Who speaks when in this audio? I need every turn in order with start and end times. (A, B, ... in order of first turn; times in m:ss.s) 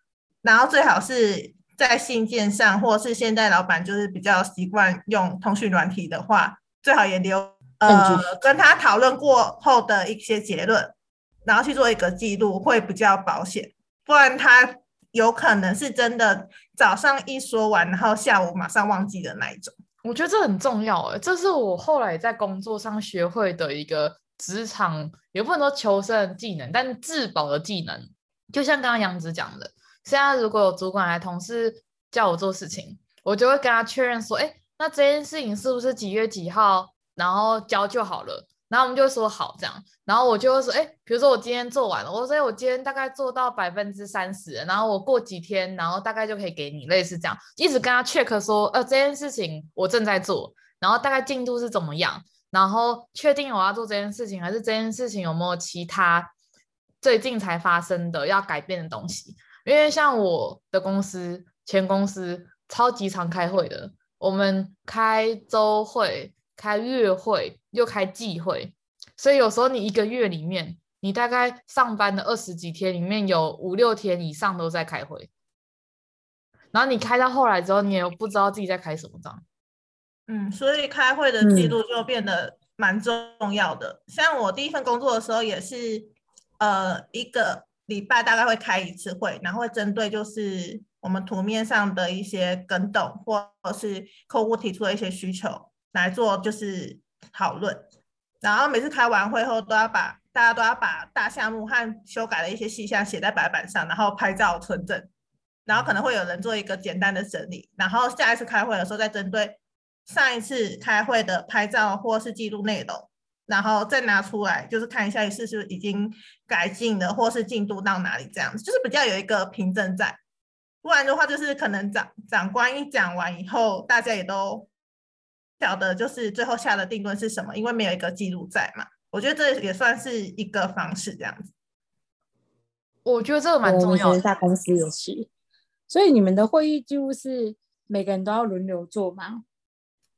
0:00.4-0:19.7 A
0:07.9-0:08.3 B
0:20.0-0:56.3 C
0:57.0-1:15.3 C
1:16.7-1:19.4 C
1:20.3-1:37.9 A
1:21.4-1:21.7 B
1:38.4-1:45.1 A
1:45.7-2:00.2 A
2:00.8-2:04.7 A
2:05.6-2:11.5 A
2:13.0-2:14.2 C
2:13.6-2:15.3 B
2:15.9-2:19.4 B